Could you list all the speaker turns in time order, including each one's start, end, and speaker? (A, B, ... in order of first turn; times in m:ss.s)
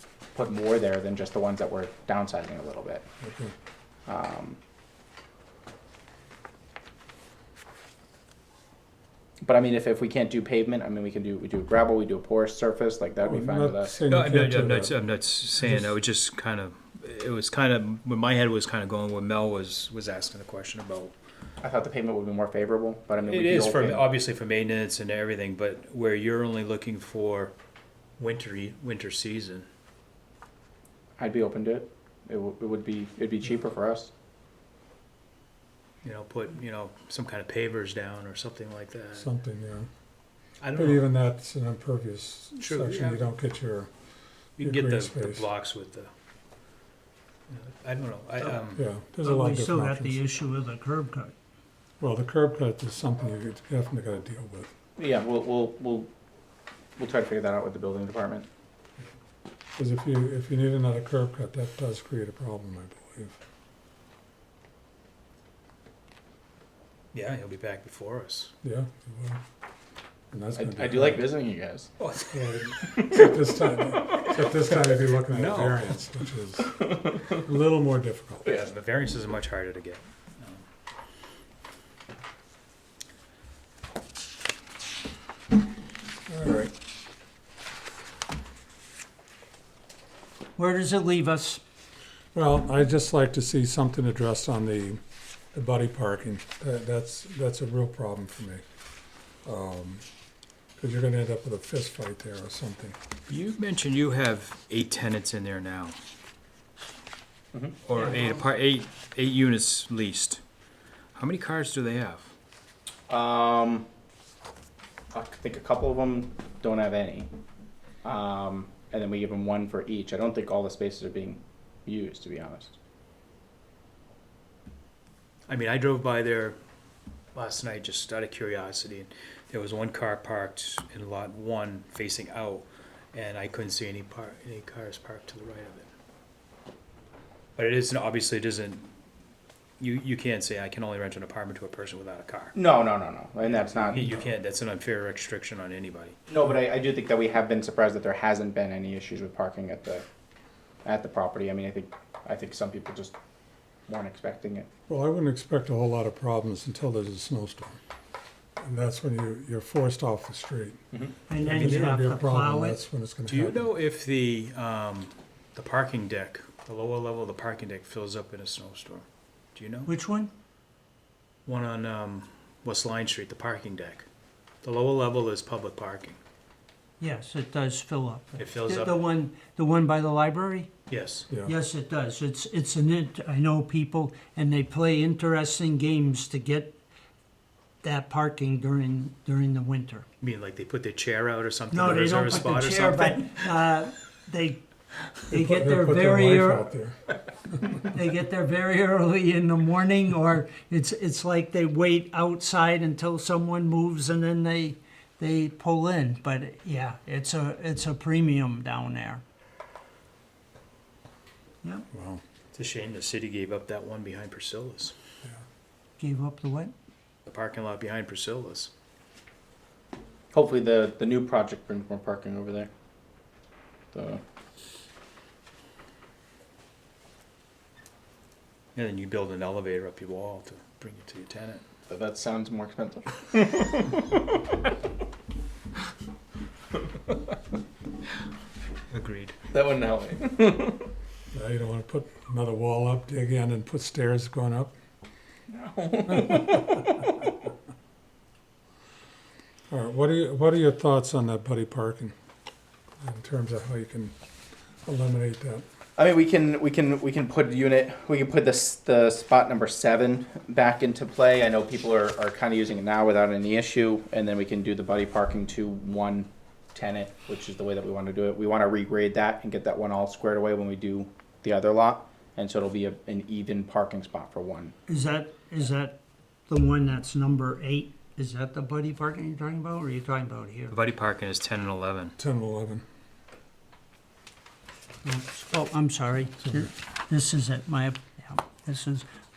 0:00.3-0:03.0 A
0:03.2-0:03.5 B
0:04.1-0:04.6 A
0:09.4-0:14.0 A
0:13.2-0:14.9 B
0:14.1-0:21.1 C
0:15.6-0:15.9 B
0:21.6-0:24.0 A
0:23.2-0:27.5 C
0:28.2-0:29.7 C
0:31.2-0:34.1 A
0:36.0-0:39.3 C
0:39.1-0:39.9 B
0:40.6-0:41.1 C
0:40.7-0:43.9 B
0:42.6-0:43.3 C
0:44.6-0:46.1 C
0:44.6-0:45.5 B
0:47.5-0:48.8 C
0:48.7-0:50.2 B
0:49.2-0:51.3 D
0:52.0-0:54.7 B
0:55.0-0:56.1 A
0:57.0-0:58.4 A
0:59.8-1:03.4 B
1:07.1-1:08.5 C
1:08.6-1:09.4 B
1:10.3-1:11.2 B
1:10.5-1:11.9 A
1:12.0-1:12.7 C
1:12.3-1:18.4 B
1:15.3-1:15.8 C
1:18.4-1:20.6 C
1:26.3-1:26.7 B
1:30.6-1:31.6 D
1:32.3-1:35.0 B
1:35.5-1:38.6 B
1:39.4-1:40.0 B
1:40.8-1:43.0 B
1:43.3-1:46.0 C
1:47.5-1:47.8 A
1:47.8-1:50.4 C
1:51.1-1:52.3 C
1:53.1-1:53.9 A
1:55.1-1:57.3 A
1:58.0-2:02.8 A
2:05.5-2:06.6 C
2:07.3-2:15.9 C
2:17.6-2:18.9 C
2:19.8-2:22.6 C
2:22.5-2:24.3 A
2:23.4-2:26.2 C
2:26.3-2:30.0 A
2:30.8-2:33.1 A
2:33.9-2:34.7 A
2:34.9-2:37.8 B
2:38.6-2:40.8 B
2:41.3-2:42.8 D
2:41.4-2:43.6 B
2:41.6-2:41.8 C
2:43.3-2:49.9 C
2:49.8-2:50.3 D
2:51.4-2:54.0 C
2:54.6-2:56.2 C
2:57.0-3:00.7 D
2:58.4-2:59.0 C
3:00.9-3:01.3 C
3:01.3-3:01.5 B
3:01.4-3:06.8 D
3:07.8-3:10.0 D
3:10.2-3:13.5 C
3:11.7-3:14.6 D
3:15.3-3:16.7 D
3:15.3-3:17.0 B
3:17.8-3:29.2 D
3:31.9-3:32.2 B
3:32.5-3:34.9 C
3:36.0-3:36.7 D
3:37.3-3:38.7 C
3:40.3-3:42.7 A
3:43.9-3:44.2 A
3:48.7-3:51.6 C
3:51.9-3:54.0 A
3:58.9-3:59.4 C
3:59.5-4:00.8 A
4:01.3-4:04.7 B
4:05.5-4:06.7 A
4:06.1-4:06.8 B
4:09.7-4:12.1 B
4:13.0-4:14.1 B
4:14.8-4:15.6 B
4:16.0-4:34.7 A
4:34.9-4:40.8 D
4:40.7-4:42.1 C
4:42.2-4:42.8 B
4:45.0-4:49.0 D